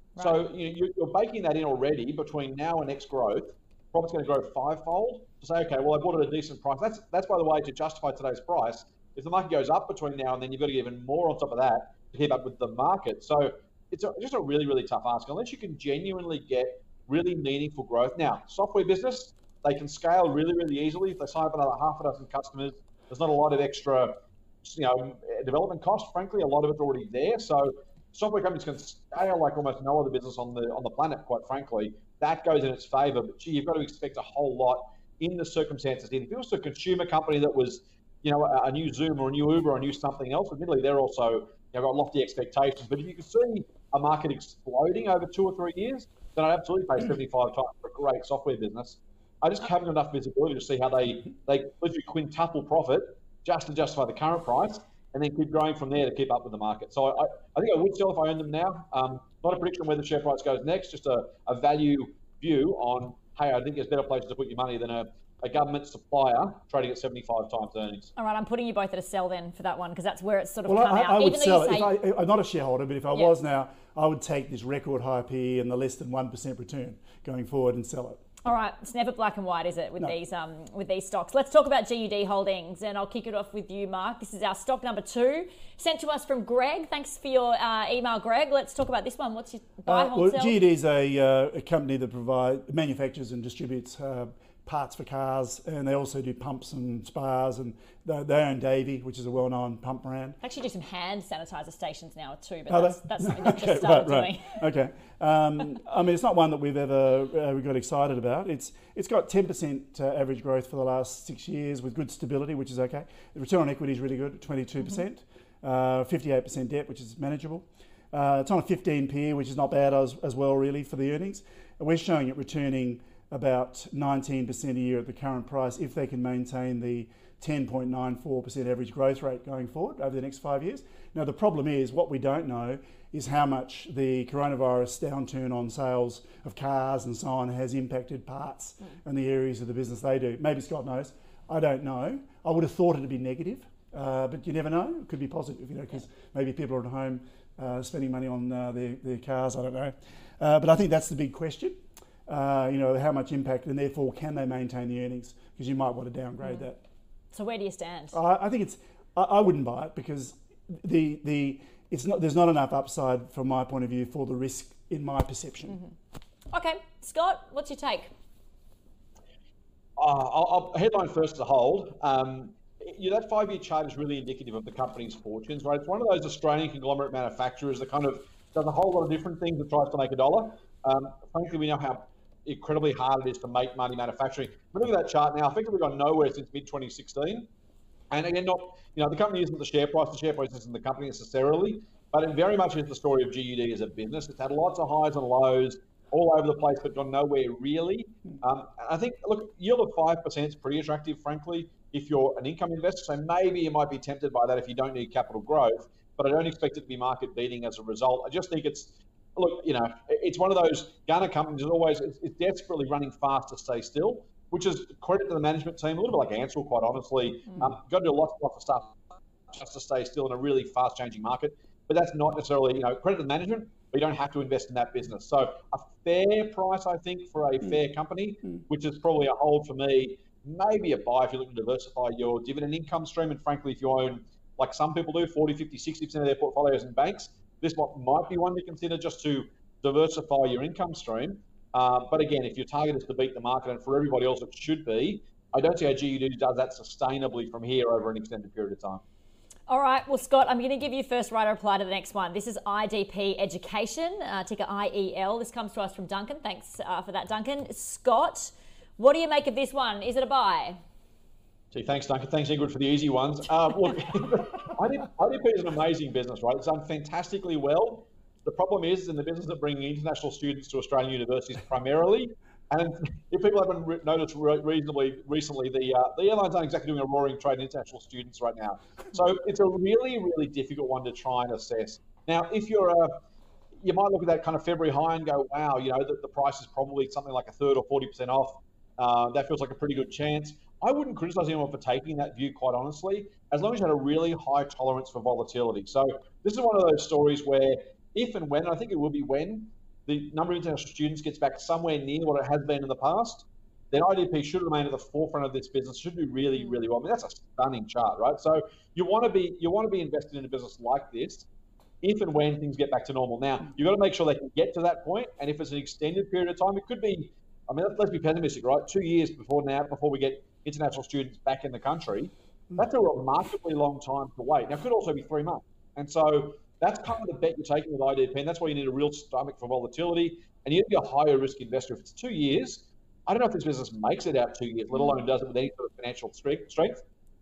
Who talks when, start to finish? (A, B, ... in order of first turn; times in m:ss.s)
0:00.2-0:00.4 A
0:00.2-1:08.1 B
1:08.2-1:12.0 A
1:10.7-1:18.2 C
1:18.4-1:30.6 A
1:29.9-1:40.4 C
1:40.4-1:44.6 A
1:42.7-2:36.8 C
2:36.4-2:36.7 A
2:37.3-2:38.2 A
2:38.1-2:45.8 C
2:46.5-2:48.1 A
2:50.0-3:07.5 B
3:08.1-4:09.0 B
4:09.7-4:20.8 A
4:21.7-4:43.2 B
4:43.8-5:11.5 B
5:12.0-5:37.0 B